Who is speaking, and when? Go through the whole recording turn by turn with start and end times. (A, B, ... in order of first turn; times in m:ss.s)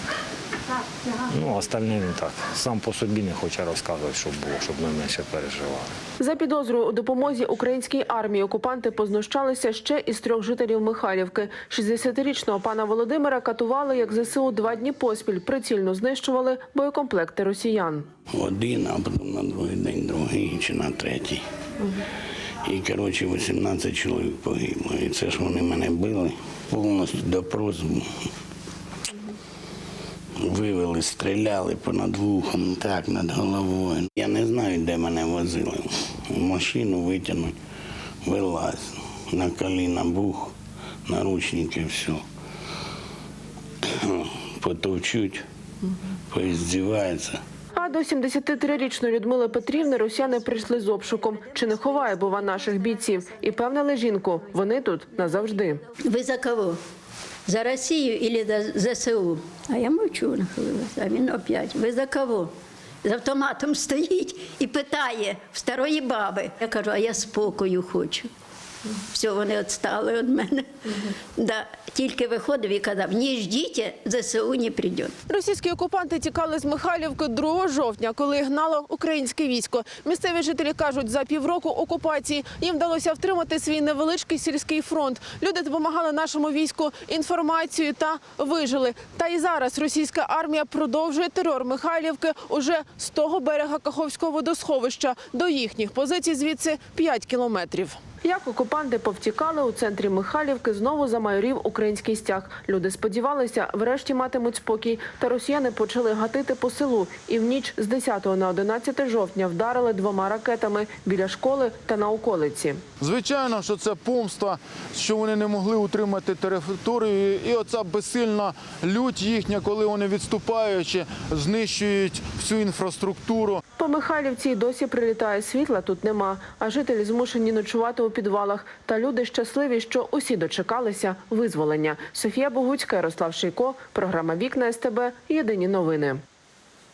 0:01.3-0:06.0 A
0:06.2-0:18.1 B
0:18.3-0:21.4 C
0:22.6-0:28.3 C
0:30.4-0:37.6 C
0:38.2-0:40.5 C
0:41.0-0:42.2 C
0:43.9-0:45.4 C
0:46.3-0:47.4 C
0:47.7-0:55.8 B
0:56.0-0:56.8 D
0:57.4-1:02.5 D
1:03.0-1:08.3 D
1:09.0-1:15.2 D
1:15.3-1:52.8 B
1:53.0-2:03.6 E
2:03.8-2:16.2 B